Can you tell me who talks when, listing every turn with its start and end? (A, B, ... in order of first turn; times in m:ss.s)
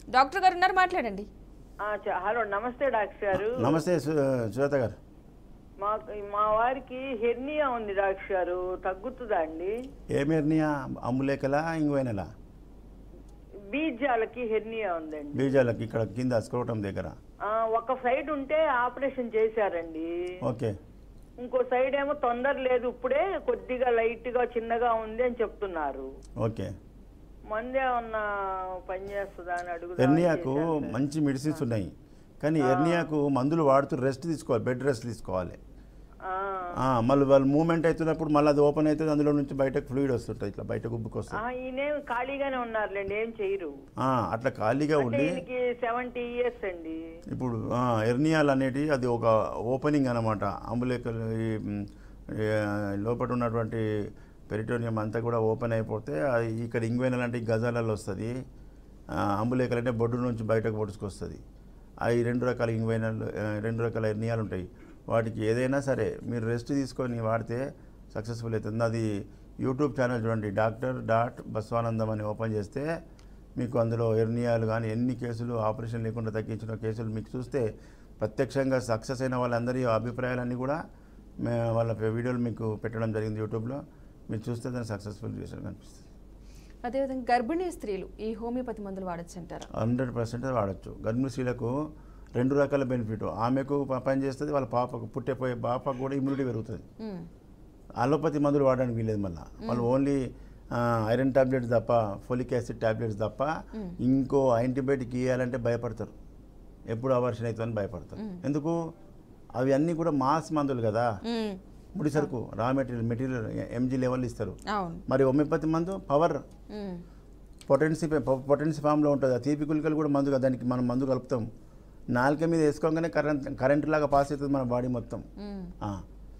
0:00.1-0:01.3 A
0:01.8-0:03.8 B
0:03.3-0:05.0 C
0:05.8-0:09.7 B
0:10.1-0:12.3 C
0:13.7-0:15.6 B
0:15.3-0:17.1 C
0:17.5-0:20.1 B
0:20.4-0:20.7 C
0:21.4-0:26.1 B
0:26.4-0:26.7 C
0:27.5-0:28.3 B
0:28.8-0:30.9 B
0:30.0-0:35.6 C
0:32.6-0:33.1 B
0:36.3-0:36.8 B
0:36.8-0:41.4 C
0:41.4-0:43.7 B
0:44.0-0:45.4 C
0:45.0-0:47.0 B
0:47.3-0:53.8 C
0:54.5-0:58.3 C
0:59.2-1:01.4 C
1:02.0-1:09.1 C
1:09.6-1:12.9 C
1:13.6-1:17.7 C
1:18.2-1:20.8 C
1:21.4-1:26.0 C
1:26.8-1:29.7 A
1:29.8-1:31.7 C
1:32.4-1:36.8 C
1:37.0-1:37.3 A
1:38.0-1:40.2 C
1:39.6-1:39.9 A
1:40.7-1:43.5 C
1:44.0-1:46.1 C
1:46.9-1:48.8 C
1:49.6-1:51.1 C
1:51.2-1:51.6 A
1:52.0-1:54.6 C
1:54.7-1:55.0 A
1:55.1-1:56.4 C
1:56.7-1:57.0 A
1:57.7-2:01.5 C
2:02.1-2:05.2 C
2:05.4-2:05.7 A